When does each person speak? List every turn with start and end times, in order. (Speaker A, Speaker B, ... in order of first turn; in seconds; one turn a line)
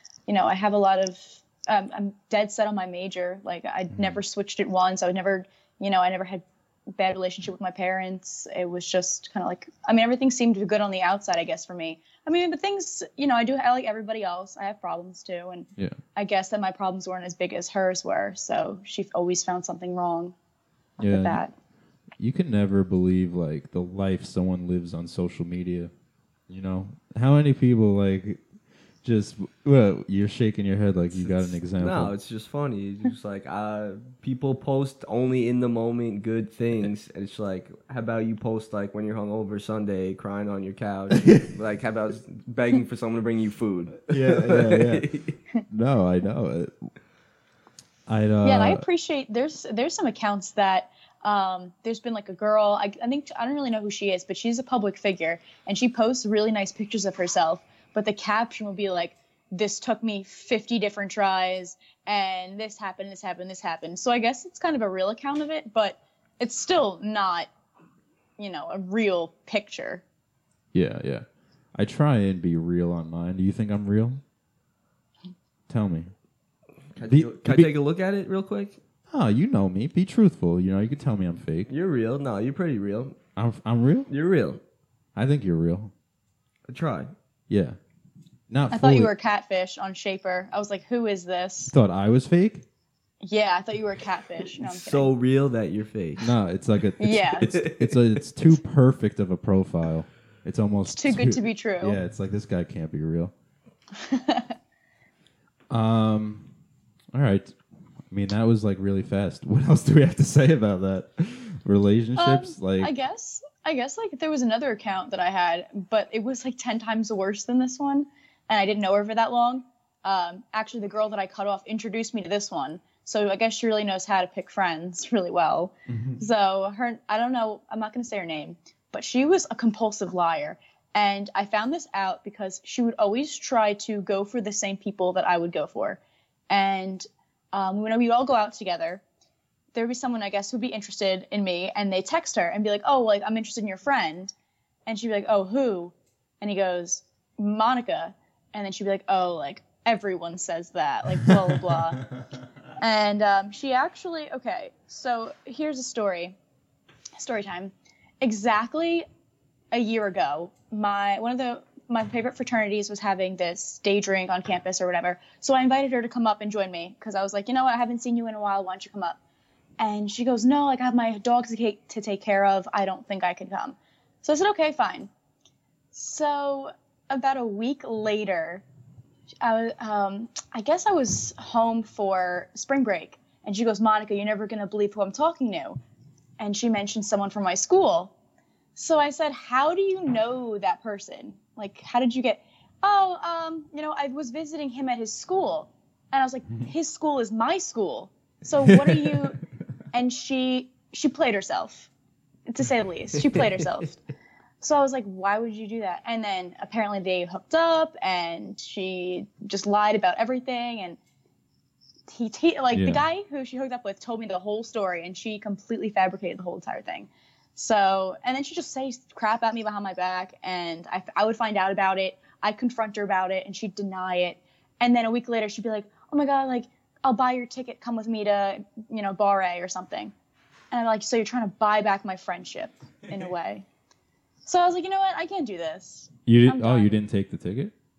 Speaker A: 0.3-6.4
Speaker B: 3.9-4.2
Speaker A: 7.0-20.4
Speaker B: 21.0-21.4
Speaker A: 21.0-21.5
Speaker B: 22.2-25.9
Speaker B: 26.5-28.4
Speaker B: 29.0-32.1
Speaker C: 31.1-45.4
Speaker B: 41.2-41.5
Speaker B: 44.1-45.1
Speaker B: 45.7-46.9
Speaker B: 48.1-48.9
Speaker A: 48.4-67.5
Speaker A: 68.4-70.0
Speaker B: 70.7-74.2
Speaker B: 75.7-76.1
Speaker C: 77.0-78.8
Speaker B: 77.1-77.7
Speaker B: 79.1-81.7
Speaker C: 81.7-83.2
Speaker B: 83.4-84.1
Speaker C: 84.1-84.6
Speaker B: 85.2-85.9
Speaker C: 86.7-87.1
Speaker B: 87.5-87.8
Speaker B: 88.5-89.1
Speaker A: 88.7-91.7
Speaker B: 91.7-92.7
Speaker A: 93.2-95.1
Speaker C: 94.5-96.2
Speaker B: 96.2-103.3
Speaker A: 97.0-97.5
Speaker C: 97.5-98.2
Speaker A: 100.9-102.0
Speaker A: 104.0-104.5
Speaker B: 105.7-106.5
Speaker B: 107.1-107.6
Speaker B: 108.1-112.9
Speaker A: 112.2-136.0
Speaker B: 125.9-126.2
Speaker A: 136.5-139.0
Speaker A: 139.7-144.3
Speaker A: 144.9-152.1
Speaker B: 151.2-151.6
Speaker A: 152.8-156.4
Speaker A: 157.2-159.1
Speaker A: 159.7-169.2
Speaker A: 169.8-175.1
Speaker A: 175.9-178.6
Speaker A: 179.4-185.8
Speaker A: 186.4-188.1
Speaker A: 188.8-199.4
Speaker B: 198.6-199.2
Speaker A: 199.9-201.9
Speaker A: 202.5-204.0
Speaker C: 203.2-203.8
Speaker A: 204.6-211.0
Speaker A: 212.1-230.1
Speaker B: 212.7-213.0
Speaker A: 230.7-233.7
Speaker A: 234.4-237.0
Speaker B: 236.3-237.7